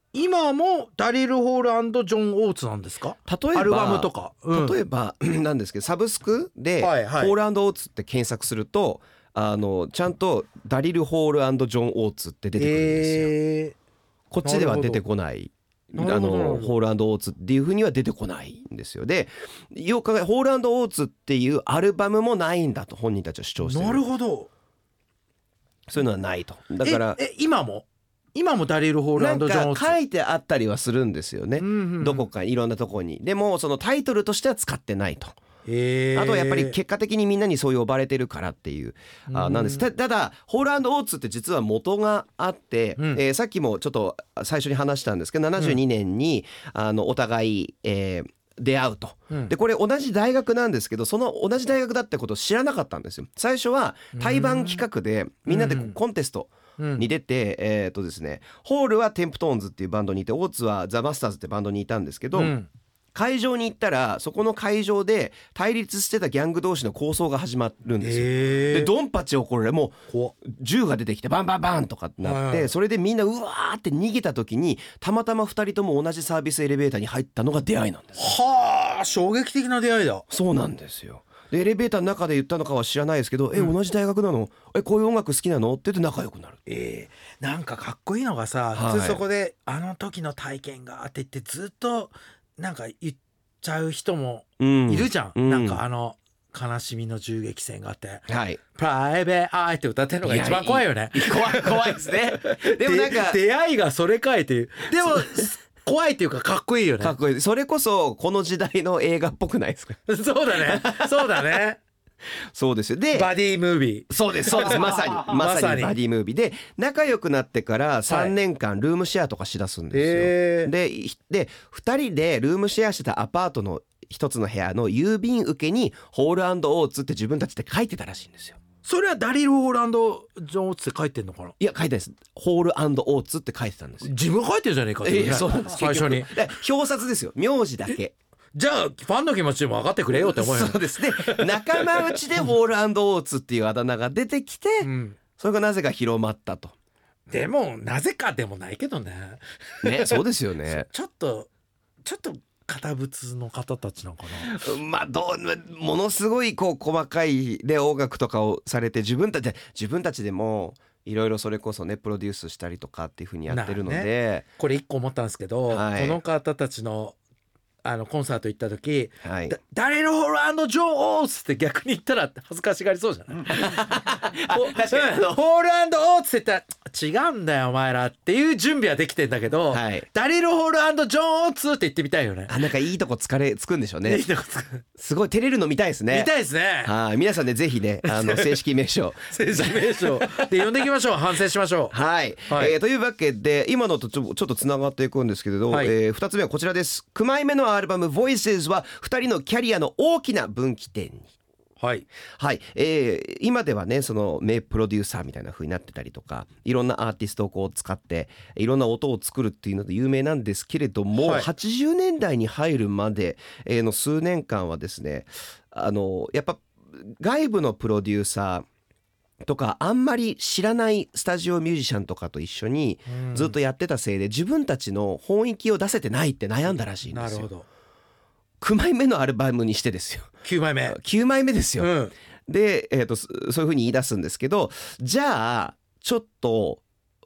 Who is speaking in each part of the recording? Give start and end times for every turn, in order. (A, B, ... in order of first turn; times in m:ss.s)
0:00.1-0:04.8 A
0:03.3-0:13.3 B
0:06.8-0:07.4 A
0:12.6-0:13.8 A
0:14.3-0:24.0 B
0:14.4-0:15.0 A
0:16.0-0:16.7 A
0:23.6-0:24.5 A
0:25.9-0:27.2 B
0:26.8-0:30.0 A
0:29.2-0:35.4 B
0:31.6-0:32.2 A
0:35.7-0:36.8 A
0:36.2-1:02.6 B
0:39.3-0:39.9 A
0:54.1-0:54.8 A
0:55.5-0:56.0 A
0:56.8-0:57.1 A
1:02.4-1:02.7 A
1:03.2-1:18.2 B
1:08.0-1:08.9 A
1:10.1-1:10.3 A
1:12.2-1:12.7 A
1:18.2-1:20.2 A
1:20.3-1:26.6 B
1:26.7-1:47.2 A
1:28.7-1:29.2 B
1:34.6-1:35.8 B
1:38.3-1:38.6 B
1:40.2-1:43.4 B
1:45.0-1:45.4 B
1:47.0-1:51.4 B
1:50.1-1:51.8 A
1:52.5-1:53.3 B
1:53.1-1:56.0 A
1:54.1-2:08.6 B
1:58.1-1:58.3 A
1:59.9-2:00.7 A
2:08.8-2:11.5 A
2:11.6-2:14.1 B
2:14.0-2:16.4 A
2:15.0-2:18.2 B
2:18.6-2:22.4 A
2:20.2-2:26.7 B
2:24.8-2:25.2 A
2:27.3-2:31.5 A
2:29.8-2:30.9 B
2:32.0-2:34.5 A
2:34.4-2:44.4 B
2:43.5-2:47.2 A
2:45.7-2:46.2 B
2:47.8-3:02.6 A
2:49.2-2:49.6 B
2:53.6-2:55.4 B
2:59.7-3:00.1 B
3:02.5-3:04.2 B
3:04.0-3:04.8 A
3:05.0-3:06.3 B
3:06.1-3:06.9 A
3:06.8-3:10.5 B
3:08.0-3:08.6 A
3:09.3-3:11.9 A
3:11.9-3:21.3 B
3:12.5-3:12.7 A
3:15.7-3:16.0 A
3:21.8-3:22.1 A
3:22.4-3:38.7 B
3:31.2-3:31.5 A
3:39.4-3:47.5 B
3:43.1-3:43.6 A
3:47.1-3:47.7 A
3:48.6-3:50.3 B
3:50.4-3:51.0 A
3:50.9-3:51.9 B
3:51.8-3:52.1 A
3:52.5-3:56.8 B